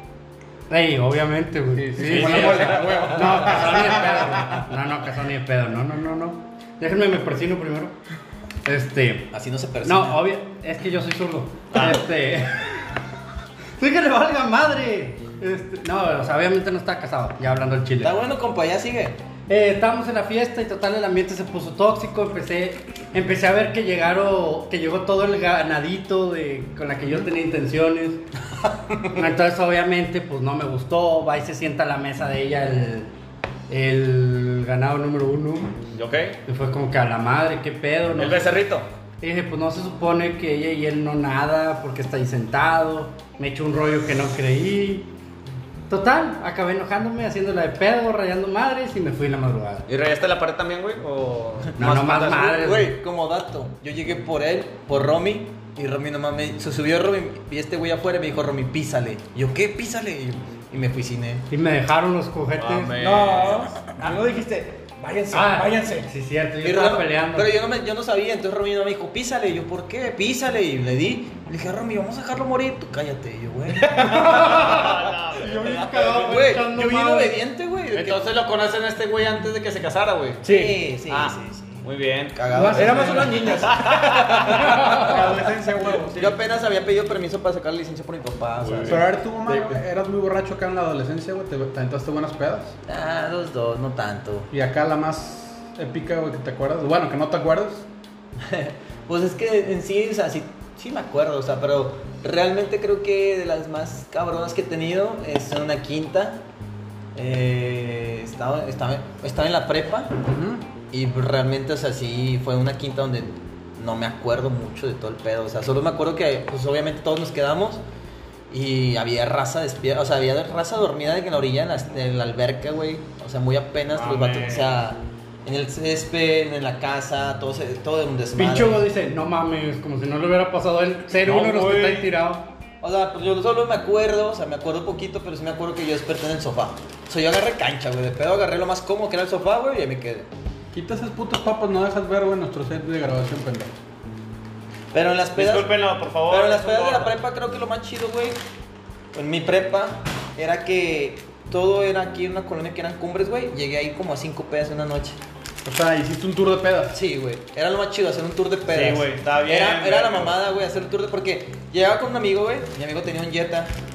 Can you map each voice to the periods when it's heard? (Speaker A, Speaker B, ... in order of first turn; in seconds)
Speaker A: 0.7-7.9, 8.7-9.3, 9.8-12.7, 13.8-18.1, 19.5-28.2, 29.1-33.1, 33.7-35.8, 36.5-38.5, 39.2-45.1, 45.9-49.9, 51.8-52.9, 61.5-63.0, 65.3-67.5, 73.9-77.4, 82.5-83.5, 84.6-85.1, 128.3-132.4
Speaker B: 1.8-4.6, 84.9-86.3, 88.9-92.7, 94.5-97.9, 110.2-110.7, 140.7-143.7, 155.7-157.0
Speaker C: 2.1-3.0, 11.7-12.0, 35.9-36.4, 38.2-38.9, 49.9-52.6, 62.6-63.7, 74.1-76.3, 77.9-80.4, 81.1-82.4, 83.6-85.3, 88.6-89.0, 123.9-124.7, 131.2-132.1, 145.4-147.2, 158.7-160.4
Speaker D: 9.3-10.3, 18.0-19.2, 52.3-61.5, 66.6-74.2, 76.1-78.3, 80.4-83.5, 86.2-89.0, 92.9-94.5, 98.4-106.4, 107.2-110.1, 110.9-117.8, 118.5-128.8, 132.8-140.3, 144.9-148.4, 149.1-155.2, 156.9-163.7
Speaker E: 63.0-66.1, 80.4-80.8, 82.6-85.2